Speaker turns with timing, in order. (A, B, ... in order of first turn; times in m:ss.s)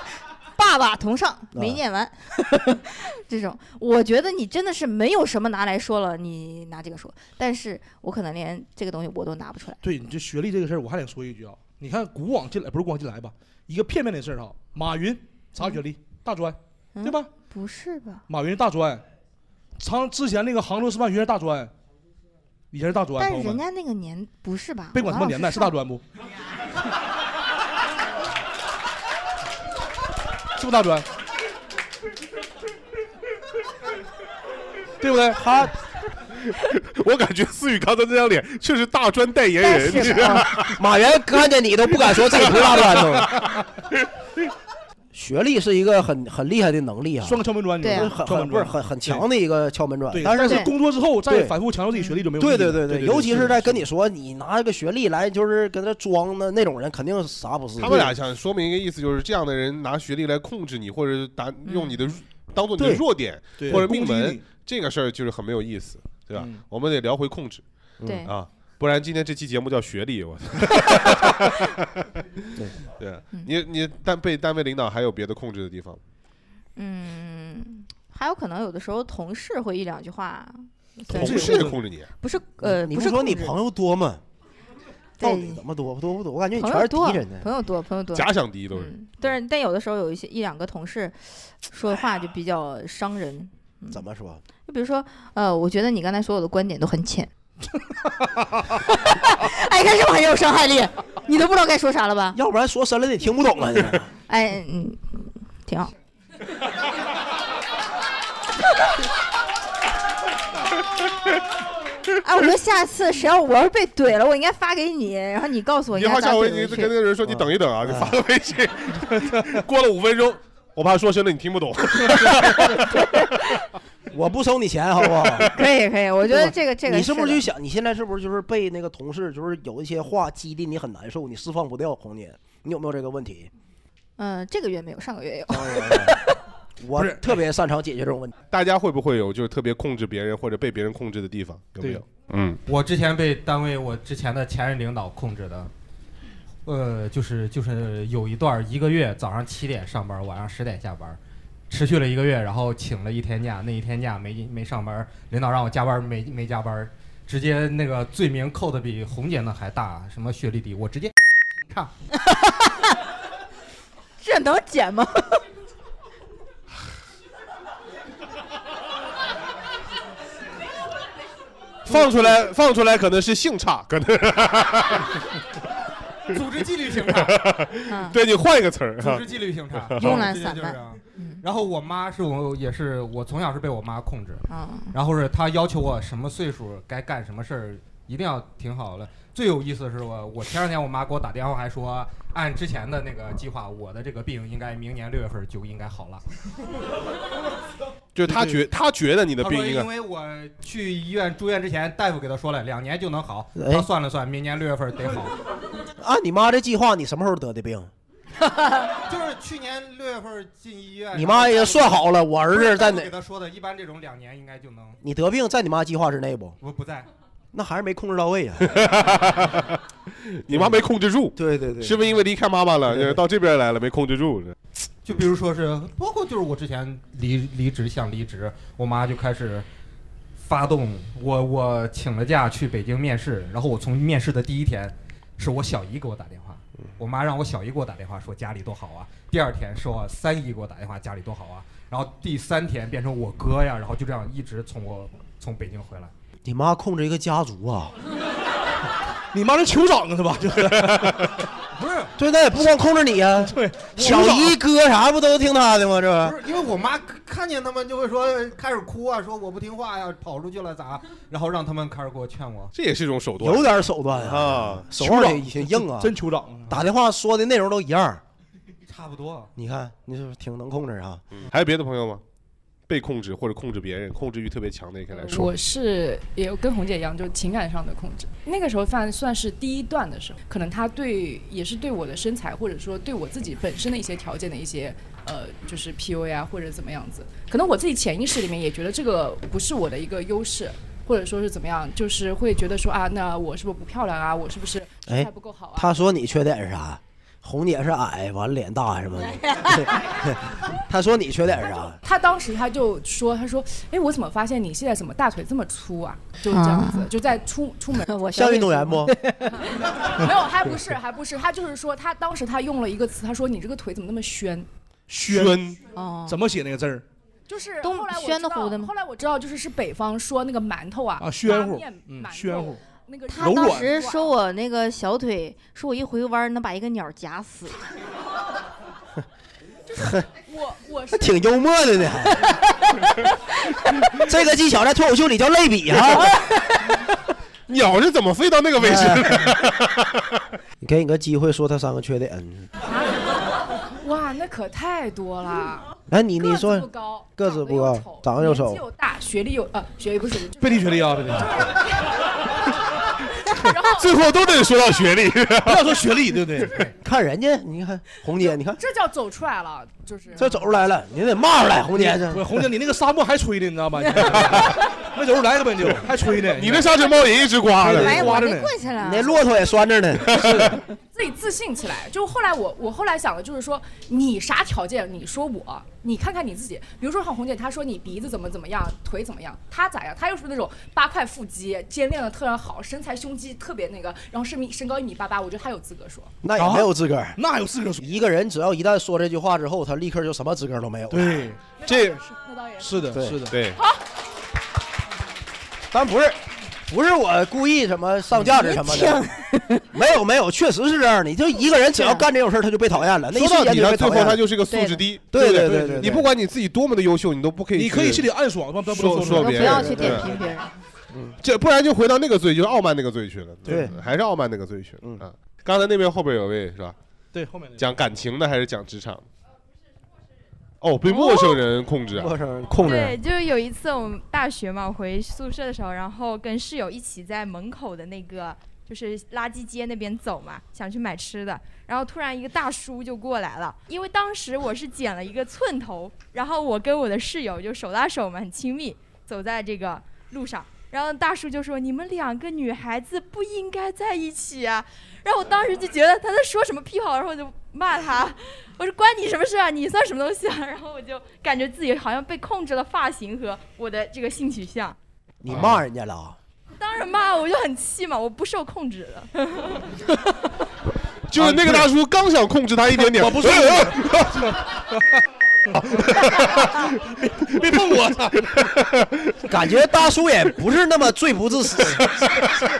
0:00.6-0:09.8 A
0:01.5-0:01.8 B
0:09.8-0:17.3 C
0:17.0-0:18.2 A
0:18.3-0:19.0 C
0:19.8-0:21.7 C
0:22.7-0:23.6 C
0:23.2-0:25.7 A
0:24.9-0:26.0 C
0:30.6-0:31.1 C
0:35.0-0:35.4 C
0:35.3-0:35.7 B
0:36.5-0:40.8 D
0:39.6-0:40.5 A
0:40.8-0:43.3 B
0:42.1-0:43.4 D
0:45.1-0:50.7 B
0:47.2-0:49.2 C
0:47.8-0:48.1 A
0:50.1-0:53.8 C
0:50.4-0:50.7 A
0:51.2-0:51.5 B
0:52.4-0:58.1 B
0:57.8-1:07.6 D
1:01.6-1:02.0 A
1:02.8-1:03.0 B
1:03.6-1:04.4 C
1:08.0-1:08.3 B
1:08.0-1:08.3 A
1:08.2-1:11.8 D
1:12.9-1:16.0 D
1:16.8-1:23.6 A
1:21.1-1:22.1 D
1:21.1-1:21.8 C
1:22.6-1:24.2 B
1:25.2-1:25.6 A
1:25.2-1:27.5 B
1:26.6-1:34.0 A
1:28.1-1:28.9 D
1:33.9-1:34.4 B
1:34.6-1:37.3 A
1:38.9-1:42.4 A
1:42.3-1:44.1 B
1:44.3-1:45.9 A
1:52.2-1:56.9 A
1:55.9-2:03.0 D
1:57.2-1:58.2 B
2:02.9-2:03.6 A
2:04.1-2:05.6 B
2:05.5-2:07.4 A
2:06.3-2:13.5 B
2:14.2-2:16.3 A
2:15.5-2:16.2 B
2:16.8-2:18.3 B
2:16.9-2:17.4 C
2:18.5-2:22.6 D
2:22.7-2:25.7 E
2:26.6-2:31.2 E
2:31.7-2:41.1 E
2:42.2-2:42.8 A
2:44.2-2:45.4 A
2:51.8-2:55.2 D
2:56.3-2:57.5 E
2:57.0-3:00.2 D
2:57.9-2:58.2 A
2:59.0-3:16.2 E
3:00.0-3:01.4 A
3:04.5-3:04.9 A
3:18.1-3:19.9 D
3:18.3-3:18.6 C
3:19.4-3:25.3 E
3:23.6-3:23.9 B
3:26.0-3:27.9 B
3:29.0-3:35.0 E
3:31.1-3:33.1 B
3:35.0-3:36.6 B
3:36.6-3:37.1 E
3:37.5-3:38.8 B
3:38.6-3:44.6 D
3:40.5-3:40.8 B
3:41.4-3:42.0 B
3:42.8-3:43.2 B
3:45.0-3:49.6 E
3:50.4-4:06.1 E
4:06.4-4:07.9 B
4:09.3-4:11.3 C
4:11.8-4:12.1 E
4:12.2-4:16.4 B
4:13.4-4:14.5 C
4:16.2-4:22.7 E
4:22.7-4:25.1 D
4:23.4-4:26.1 B
4:25.0-4:26.8 C
4:26.7-4:28.2 B
4:28.9-4:29.5 E
4:29.6-4:31.2 B
4:31.3-4:32.2 D
4:32.9-4:35.6 D
4:35.1-4:56.2 F
4:55.1-5:02.0 B
4:59.4-4:59.8 A
5:02.0-5:14.7 F
5:06.5-5:07.1 A
5:08.0-5:09.5 A
5:08.3-5:09.1 B
5:15.1-5:15.6 C
5:15.2-5:15.8 D
5:15.9-5:16.4 A
5:16.3-5:17.0 C
5:17.5-5:24.3 F
5:17.8-5:18.9 A
5:21.2-5:22.8 C
5:23.3-5:27.8 A
5:23.4-5:23.9 C
5:30.0-5:30.2 B
5:30.4-5:31.4 F
5:31.1-5:32.6 B
5:34.2-5:36.3 B
5:36.1-5:36.8 A
5:37.7-5:40.3 D
5:38.8-5:39.5 B
5:40.8-5:42.7 B
5:42.9-5:43.3 F
5:44.0-5:51.1 F
5:46.1-5:48.8 B
5:50.6-5:51.6 C
5:53.5-5:54.1 F
5:53.8-5:56.0 D
5:55.6-5:56.9 C
5:57.0-5:58.8 B
5:58.5-6:00.6 F
6:00.4-6:02.5 B
6:01.9-6:07.0 C
6:06.5-6:08.3 D
6:07.8-6:08.7 C
6:07.9-6:09.4 A
6:09.0-6:10.6 B
6:10.2-6:10.7 D
6:10.4-6:10.8 C
6:11.1-6:26.3 F
6:26.4-6:27.4 B
6:26.6-6:28.0 C
6:28.0-6:31.5 B
6:31.1-6:31.6 C
6:31.8-6:33.2 F
6:31.9-6:32.1 D
6:32.8-6:33.6 C
6:33.1-6:33.5 B
6:33.5-6:33.8 D
6:33.7-6:34.0 F
6:35.9-6:39.3 B
6:38.5-6:39.9 A
6:39.9-6:44.4 B
6:42.0-6:42.2 A
6:43.3-6:48.3 D
6:44.7-6:45.0 A
6:45.3-6:46.3 B
6:45.4-6:46.2 C
6:47.7-6:50.4 C
6:48.8-6:50.3 D
6:49.3-6:50.7 A
6:49.8-6:50.2 B
6:51.1-6:51.4 B
6:51.4-6:57.0 D
6:53.7-6:54.0 B
6:57.3-6:57.9 C
6:57.8-6:59.2 D
7:00.8-7:02.3 D
7:01.1-7:01.6 G
7:02.1-7:03.2 B
7:02.8-7:35.0 G
7:35.4-7:36.4 B
7:36.8-7:40.0 G
7:41.3-7:44.4 D
7:41.3-7:41.9 C
7:42.9-7:45.2 C
7:45.7-7:48.6 C
7:45.8-7:46.9 D
7:48.9-7:49.3 D
7:49.5-7:52.1 B
7:52.1-7:52.5 D